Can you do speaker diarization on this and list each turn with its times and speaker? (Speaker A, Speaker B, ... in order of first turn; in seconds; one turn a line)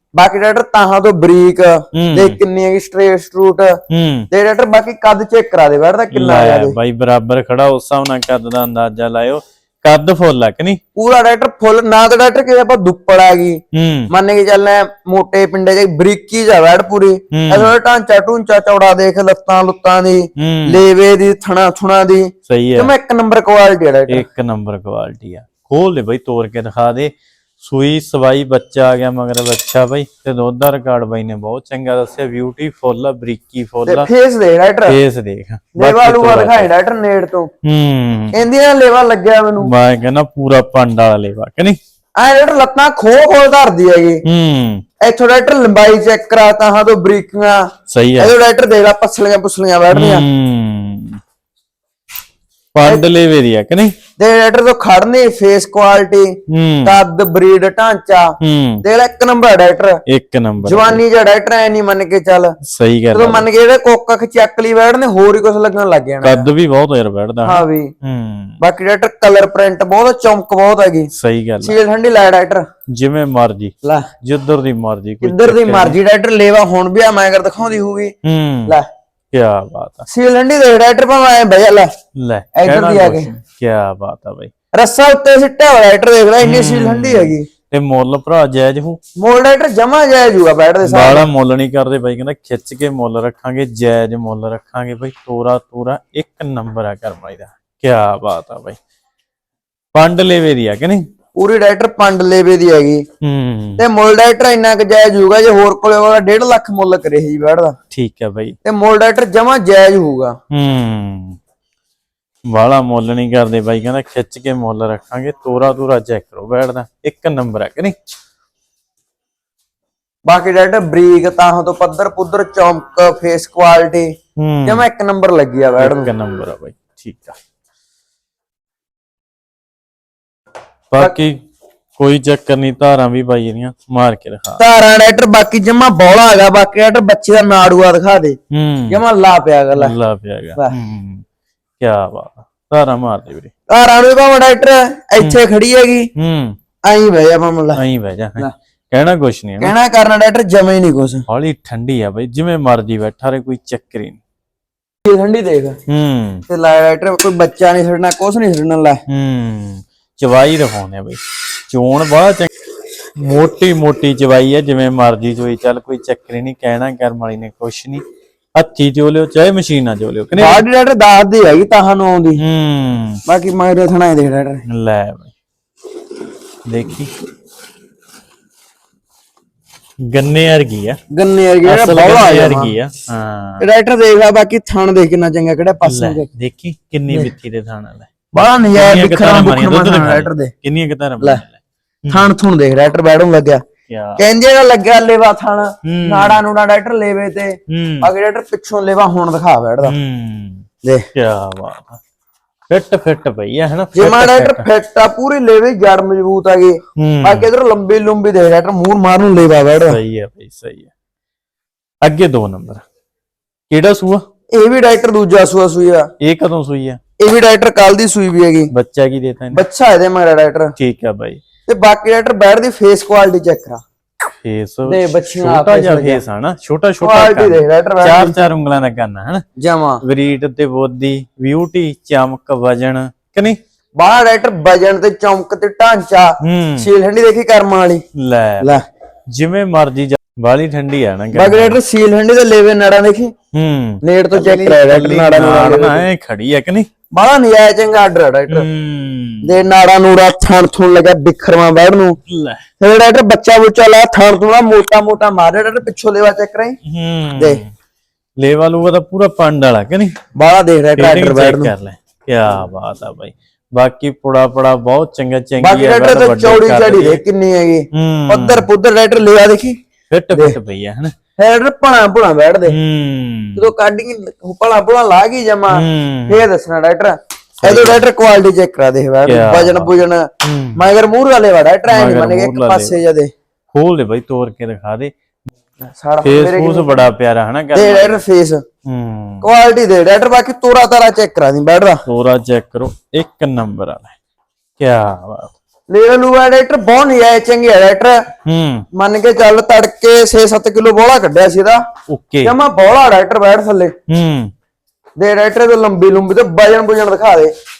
Speaker A: 0.1-3.8
Speaker B: 1.9-2.4
Speaker B: 3.9-4.3
Speaker A: 4.3-6.8
Speaker B: 6.1-10.8
Speaker A: 10.9-24.2
Speaker B: 13.7-14.1
Speaker B: 17.3-17.7
Speaker B: 20.4-20.8
Speaker B: 22.5-22.9
Speaker B: 24.1-34.1
Speaker A: 33.9-35.0
Speaker B: 34.9-36.7
Speaker A: 35.8-37.5
Speaker B: 37.6-38.4
Speaker A: 38.3-39.7
Speaker B: 39.6-41.8
Speaker A: 42.2-44.2
Speaker B: 44.2-44.8
Speaker A: 45.0-47.6
Speaker B: 47.9-48.3
Speaker A: 48.2-50.2
Speaker B: 49.9-51.2
Speaker B: 52.7-53.9
Speaker A: 54.2-58.3
Speaker B: 56.5-57.0
Speaker B: 58.4-58.8
Speaker A: 58.8-60.0
Speaker B: 60.1-61.0
Speaker A: 60.6-62.5
Speaker B: 62.6-63.5
Speaker A: 63.1-66.5
Speaker B: 66.2-68.6
Speaker A: 67.4-67.9
Speaker A: 68.6-71.1
Speaker B: 71.1-71.8
Speaker A: 71.6-72.7
Speaker B: 72.9-76.0
Speaker A: 75.2-78.1
Speaker B: 78.2-78.8
Speaker B: 79.3-80.1
Speaker A: 80.1-81.9
Speaker B: 82.2-84.5
Speaker A: 82.5-83.3
Speaker A: 84.7-87.5
Speaker B: 86.4-89.0
Speaker A: 89.2-91.3
Speaker B: 90.8-98.8
Speaker B: 99.9-101.0
Speaker A: 101.3-103.0
Speaker B: 103.2-103.8
Speaker A: 103.8-107.8
Speaker B: 107.9-108.5
Speaker A: 108.6-110.3
Speaker B: 110.5-111.4
Speaker B: 112.5-117.9
Speaker A: 120.2-124.1
Speaker B: 124.4-124.9
Speaker A: 124.7-126.1
Speaker B: 125.8-127.3
Speaker B: 130.9-131.3
Speaker B: 132.0-134.6
Speaker A: 134.6-138.4
Speaker B: 138.5-139.0
Speaker A: 138.9-139.9
Speaker B: 139.7-141.2
Speaker B: 141.8-143.5
Speaker A: 143.7-146.1
Speaker B: 146.2-146.6
Speaker A: 146.8-147.8
Speaker B: 147.7-149.7
Speaker A: 149.6-151.2
Speaker B: 151.3-154.2
Speaker A: 155.1-155.8
Speaker B: 155.9-156.4
Speaker A: 156.5-159.0
Speaker B: 159.1-162.5
Speaker B: 163.2-168.0
Speaker B: 168.5-170.6
Speaker A: 170.3-172.4
Speaker B: 172.4-173.2
Speaker A: 173.2-174.6
Speaker B: 174.7-175.3
Speaker B: 176.7-177.1
Speaker B: 180.1-181.0
Speaker A: 181.1-182.7
Speaker B: 181.6-183.6
Speaker A: 183.6-186.3
Speaker B: 185.8-188.1
Speaker A: 188.3-190.5
Speaker B: 188.7-192.3
Speaker A: 192.1-193.6
Speaker B: 193.9-194.2
Speaker A: 194.2-199.9
Speaker B: 195.8-196.4
Speaker B: 197.7-198.1
Speaker B: 199.8-202.0
Speaker B: 202.7-204.6
Speaker A: 203.9-210.0
Speaker B: 207.0-207.5
Speaker B: 209.8-210.9
Speaker B: 212.0-212.8
Speaker B: 213.7-214.2
Speaker A: 214.5-216.1
Speaker B: 216.2-217.0
Speaker A: 217.2-218.7
Speaker B: 218.7-219.6
Speaker A: 219.5-220.7
Speaker B: 220.8-221.4
Speaker A: 221.7-223.8
Speaker B: 224.4-229.4
Speaker A: 224.9-226.2
Speaker A: 227.0-228.4
Speaker A: 229.6-230.0
Speaker B: 230.0-233.6
Speaker A: 234.0-238.0
Speaker B: 236.4-236.9
Speaker B: 238.2-241.8
Speaker A: 241.3-243.3
Speaker B: 243.5-246.9
Speaker A: 244.0-246.1
Speaker A: 247.1-248.7
Speaker B: 248.5-249.6
Speaker A: 249.4-252.2
Speaker B: 252.2-252.6
Speaker A: 252.8-256.8
Speaker B: 256.8-257.7
Speaker B: 258.4-260.1
Speaker A: 260.4-261.7
Speaker B: 261.0-267.2
Speaker A: 265.6-269.8
Speaker B: 267.9-268.7
Speaker B: 270.1-271.1
Speaker A: 271.4-272.7
Speaker B: 272.7-273.7
Speaker A: 273.6-280.2
Speaker B: 275.7-276.5
Speaker B: 277.6-278.0
Speaker B: 279.2-280.8
Speaker A: 280.8-283.3
Speaker B: 281.9-283.0
Speaker B: 283.7-285.1
Speaker A: 285.9-287.1
Speaker B: 286.2-288.2
Speaker A: 287.7-288.6
Speaker B: 288.9-289.5
Speaker A: 289.4-292.0
Speaker B: 292.1-294.1
Speaker B: 294.8-295.5
Speaker A: 295.9-298.2
Speaker B: 298.4-298.9
Speaker A: 298.9-301.8
Speaker B: 302.1-302.5
Speaker A: 302.4-303.9
Speaker B: 304.1-304.5
Speaker A: 305.2-307.5